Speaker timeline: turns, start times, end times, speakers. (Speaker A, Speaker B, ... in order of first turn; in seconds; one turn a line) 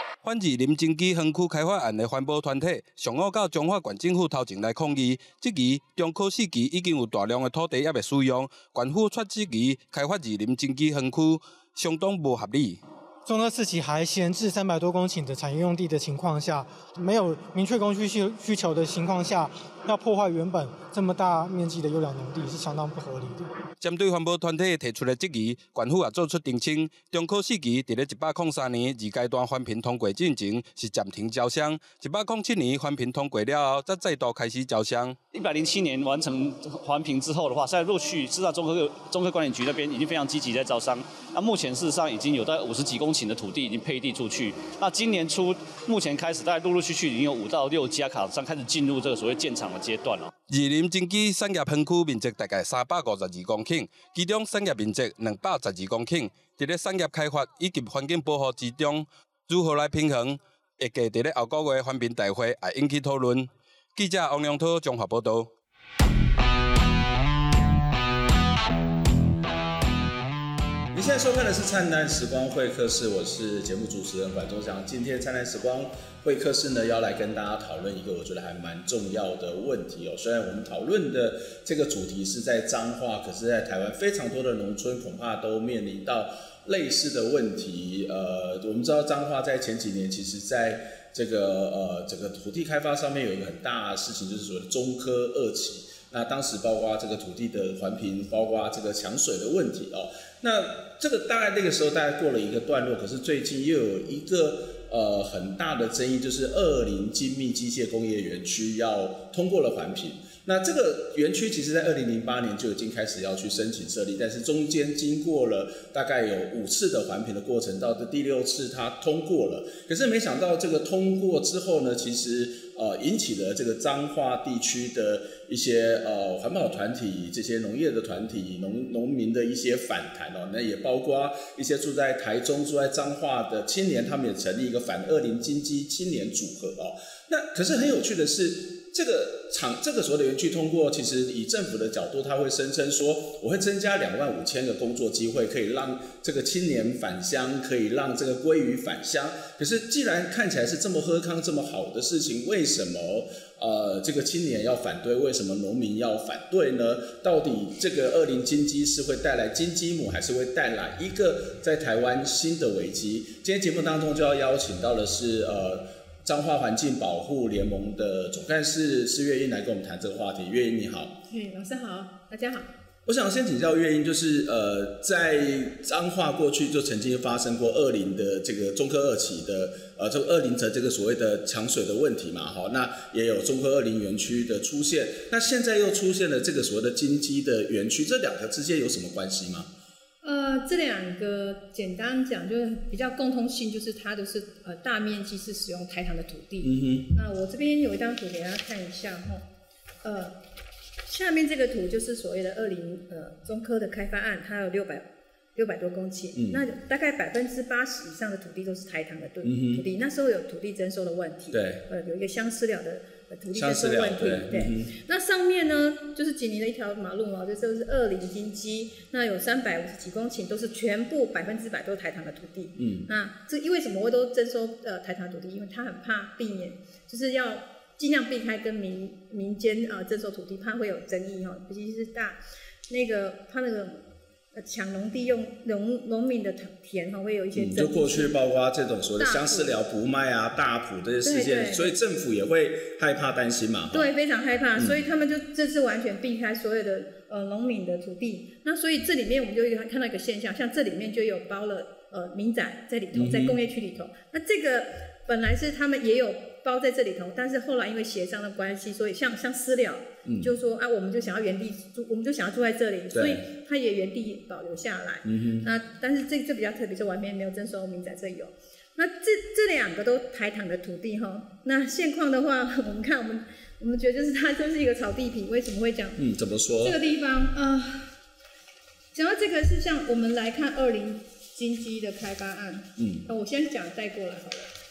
Speaker A: 0.2-12.8
Speaker B: 13.2-23.5
Speaker A: 23.8-35.2
Speaker C: 35.3-50.3
Speaker A: 50.5-65.5
Speaker D: 70.9-171.1
Speaker E: 171.3-172.7
Speaker D: 173.1-189.7
Speaker E: 190.2-199.4
Speaker D: 196.6-197.1
Speaker E: 200.0-200.3
Speaker E: 201.1-238.3
Speaker D: 206.3-206.6
Speaker D: 209.4-209.8
Speaker D: 211.5-211.8
Speaker D: 213.5-214.9
Speaker D: 222.8-223.1
Speaker D: 237.5-244.1
Speaker E: 239.2-239.7
Speaker E: 241.2-241.9
Speaker E: 243.9-276.2
Speaker D: 244.8-245.0
Speaker D: 253.1-253.6
Speaker D: 260.2-260.5
Speaker D: 263.1-263.4
Speaker D: 265.2-265.7
Speaker D: 276.1-277.0
Speaker E: 276.8-278.1
Speaker E: 279.1-284.7
Speaker D: 283.0-283.2